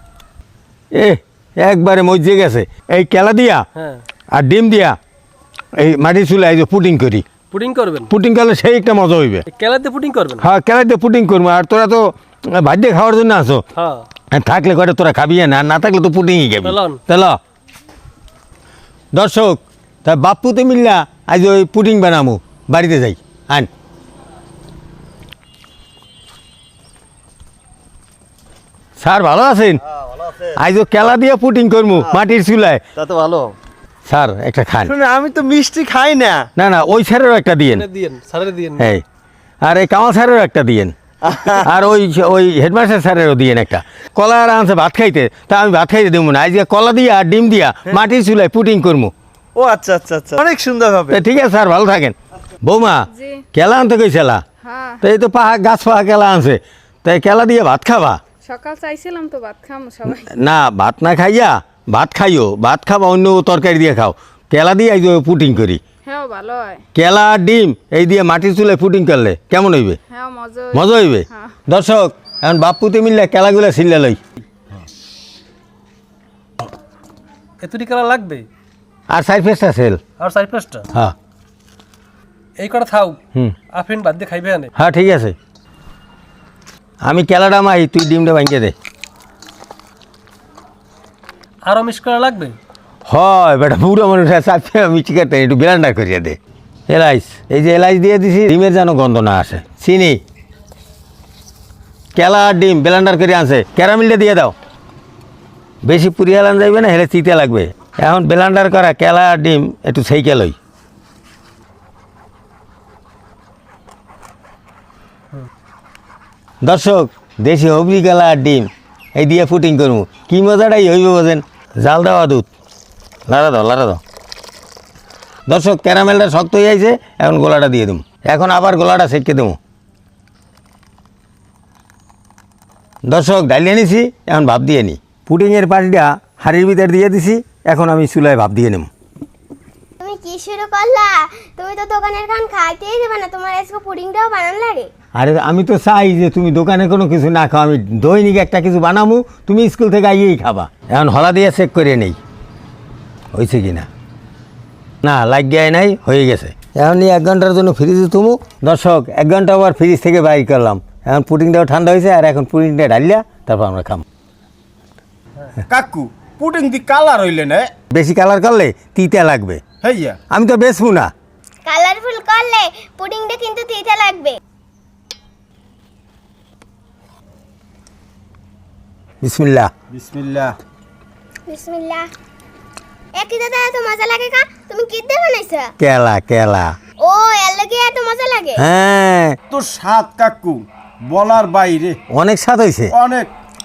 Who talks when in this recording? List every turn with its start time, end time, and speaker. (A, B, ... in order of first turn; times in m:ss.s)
0:00.9-0:03.6 A
0:03.8-0:04.0 B
0:04.3-0:05.0 A
0:05.8-0:07.3 A
0:07.5-0:08.1 B
0:08.1-0:09.5 A
0:09.5-0:10.5 B
0:10.4-0:13.6 A
0:13.8-0:14.1 B
0:14.3-0:17.4 A
0:16.6-0:17.0 B
0:19.1-0:23.7 A
0:29.0-0:32.8 A
0:33.0-0:33.5 C
0:34.1-0:35.0 A
0:34.9-0:36.5 C
0:36.6-0:37.9 A
0:37.7-0:38.9 B
0:38.8-0:39.0 A
0:39.6-0:49.1 A
0:41.3-0:41.6 C
0:49.6-0:51.2 C
0:51.1-0:54.4 A
0:53.1-0:53.4 D
0:54.6-0:55.0 D
0:55.0-0:58.2 A
0:58.4-1:00.4 D
1:00.1-1:05.8 A
1:06.0-1:06.8 D
1:06.9-1:10.0 A
1:10.1-1:11.6 D
1:10.7-1:14.2 A
1:17.6-1:18.5 B
1:19.1-1:20.0 A
1:20.2-1:20.9 B
1:22.6-1:23.2 B
1:23.7-1:24.7 B
1:24.8-1:25.4 A
1:27.0-1:28.7 A
1:31.6-1:32.6 B
1:33.1-1:36.4 A
1:36.9-1:40.2 A
1:42.2-1:44.5 A
1:45.8-1:50.6 A
1:56.6-2:02.5 A
2:03.3-2:04.0 A
2:05.5-2:09.6 A
2:13.1-2:18.9 A
2:20.0-2:24.9 E
2:25.2-2:32.2 A
2:33.3-2:33.9 A
2:35.0-2:44.0 A
2:45.7-2:47.7 C
2:47.9-2:49.6 A
2:49.8-2:50.2 C
2:50.3-2:51.1 A
2:51.7-2:54.4 E
2:59.2-2:59.7 A
2:59.9-3:00.6 C
3:01.5-3:02.1 E
3:03.2-3:05.7 E
3:05.8-3:06.7 A
3:07.0-3:08.6 E
3:08.6-3:09.4 A
3:09.5-3:12.0 C
3:12.1-3:12.9 A
3:12.9-3:13.3 C